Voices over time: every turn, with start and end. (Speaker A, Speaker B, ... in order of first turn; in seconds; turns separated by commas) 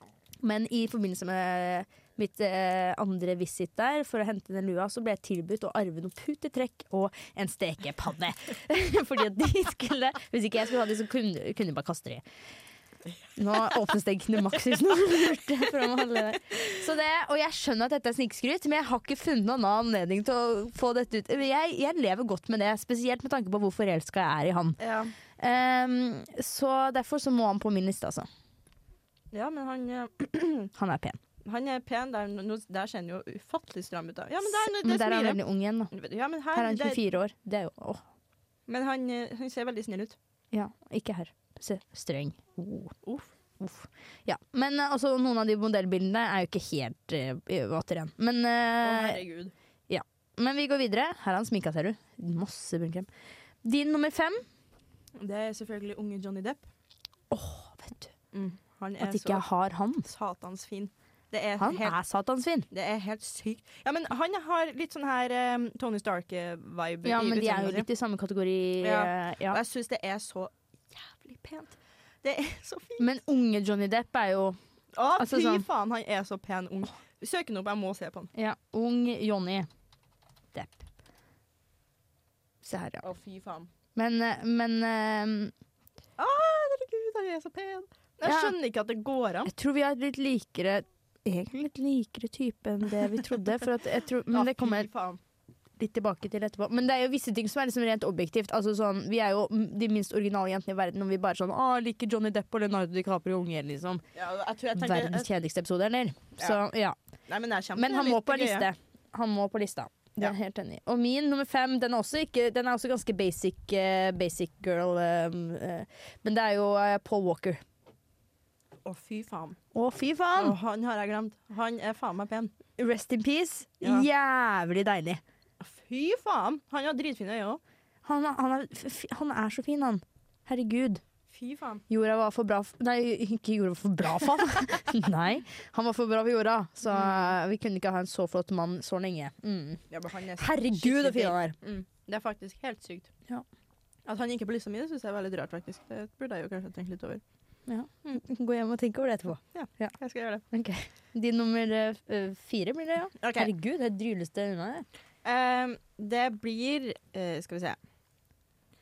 Speaker A: 0.4-12.2, Speaker A: 13.3-24.8, Speaker B: 24.8-25.1, Speaker A: 25.4-28.3, Speaker B: 29.3-30.7, Speaker A: 30.7-31.2, Speaker B: 31.4-35.4, Speaker A: 34.4-35.9, Speaker B: 35.9-37.0, Speaker A: 36.5-38.0, Speaker B: 38.7-40.1, Speaker A: 40.5-43.0, Speaker B: 43.0-43.3, Speaker A: 43.6-49.2, Speaker B: 48.8-49.5, Speaker A: 49.9-53.1, Speaker A: 53.6-54.4, Speaker B: 55.1-56.6, Speaker A: 57.3-58.1, Speaker B: 58.3-59.4, Speaker A: 59.0-60.1, Speaker B: 60.0-62.0, Speaker A: 61.6-62.7, Speaker B: 62.7-67.9, Speaker A: 67.0-69.6, Speaker B: 68.8-73.1, Speaker A: 73.0-74.6, Speaker B: 74.9-78.3, Speaker A: 75.2-75.6, Speaker A: 78.3-79.7, Speaker A: 80.5-80.8, Speaker A: 82.6-83.0, Speaker B: 83.0-83.7, Speaker A: 83.9-85.5, Speaker B: 86.2-89.5, Speaker A: 88.2-88.5, Speaker A: 89.5-94.9, Speaker B: 94.3-95.2, Speaker A: 95.8-104.0, Speaker B: 104.1-105.3, Speaker A: 104.8-107.0, Speaker B: 107.3-108.7, Speaker A: 107.7-117.6, Speaker B: 118.8-119.6, Speaker A: 119.7-120.6, Speaker B: 120.3-122.5, Speaker A: 122.8-125.2, Speaker B: 123.8-124.1, Speaker B: 125.6-127.6, Speaker A: 128.0-131.0, Speaker B: 131.3-131.8, Speaker A: 131.9-139.8, Speaker B: 136.9-137.3, Speaker B: 139.9-143.1, Speaker A: 140.4-141.5, Speaker B: 144.0-147.2, Speaker A: 147.7-149.9, Speaker B: 149.5-150.4, Speaker A: 150.5-154.8, Speaker B: 153.2-153.5, Speaker B: 155.2-157.8